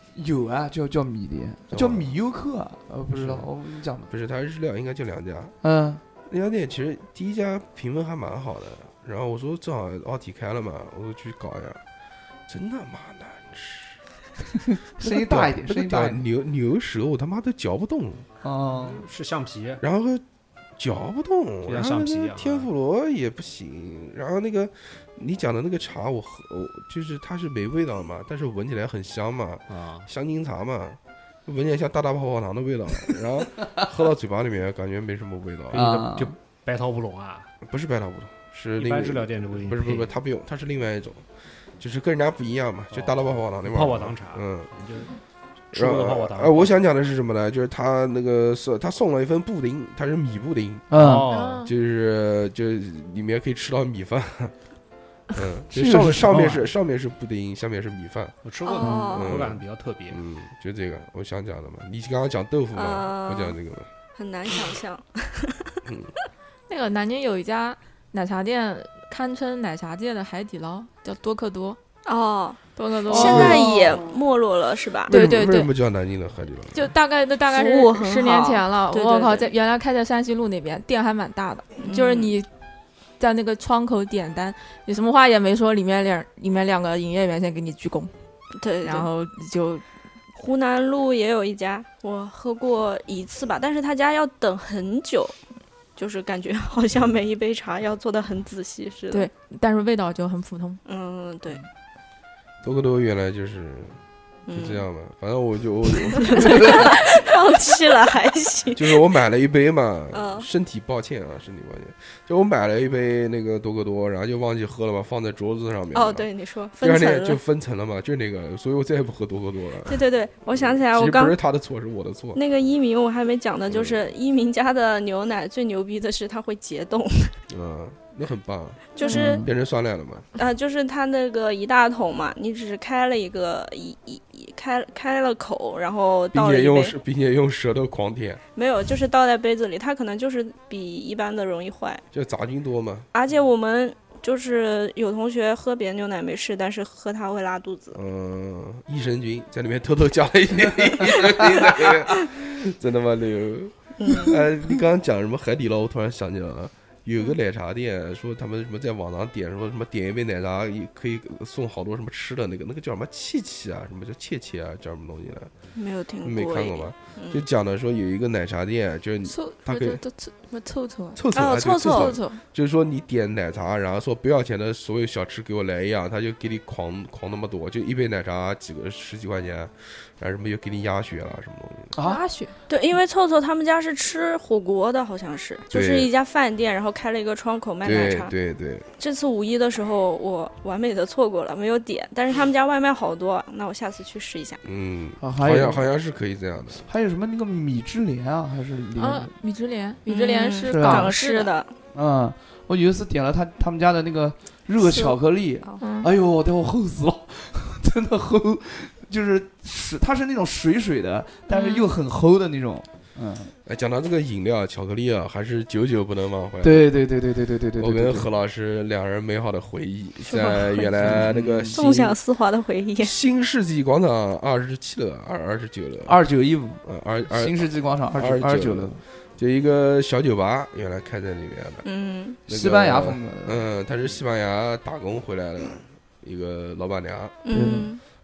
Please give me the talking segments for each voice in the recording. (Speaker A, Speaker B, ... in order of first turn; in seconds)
Speaker A: 0.1-4.1, 5.6-6.0, 14.8-16.2, 18.4-19.0, 35.7-36.4, 50.9-51.3, 55.7-56.6, 58.8-59.1, 73.2-73.6, 129.1-129.5, 181.9-182.2, 195.2-195.8, 196.8-199.3, 200.7-201.1, 201.9-213.5, 216.6-218.3, 221.0-221.8, 226.1-229.0, 232.5-233.7, 237.5-237.9
Speaker B: 1.7-2.1, 3.2-3.4, 4.1-5.6, 6.3-11.8, 12.5-14.0, 15.0-18.3, 19.8-20.2, 20.8-36.2, 37.6-41.3, 41.8-44.7, 45.7-50.9, 51.6-54.5, 55.3-58.4, 59.1-63.9, 65.8-66.1, 73.2-74.0, 75.1-76.9, 102.6-106.9, 108.7-116.3, 116.8-120.0, 120.5-122.4, 123.7-124.1, 127.5-130.3, 136.3-138.4, 142.1-143.1, 147.9-165.5, 166.2-170.0, 171.1-181.9, 185.7-186.1, 187.8-188.9, 194.6-196.8, 213.7-216.9, 217.8-222.2, 223.0-226.2, 226.8-231.8, 232.5-237.4
Speaker C: 18.8-19.8, 21.6-22.7, 29.7-30.1, 35.7-37.5, 38.8-40.1, 42.9-45.2, 45.7-46.7, 50.9-51.6, 58.4-60.2
Speaker D: 51.3-51.7, 66.7-71.8, 72.8-74.0, 75.1-75.7, 76.7-82.5, 83.2-88.1, 88.8-89.8, 99.1-100.8, 169.2-171.2, 171.8-172.4, 182.0-182.5, 199.0-201.5, 205.8-206.1
Speaker E: 58.6-59.4, 62.7-63.6, 64.1-65.8, 72.0-75.1, 77.5-79.5, 81.8-82.3, 88.6-89.1, 90.3-95.3, 96.0-99.3, 100.8-101.6, 104.5-104.8, 106.1-109.1, 110.1-110.5, 115.9-117.4, 119.9-121.4, 122.3-127.3, 128.9-129.4, 130.3-136.9, 138.5-142.0, 143.1-148.0, 154.0-154.4, 165.7-167.4, 171.3-172.2, 182.7-188.3, 189.0-194.6, 200.1-201.7, 204.8-205.8, 211.5-211.9, 220.2-223.1, 231.8-232.4, 237.4-238.0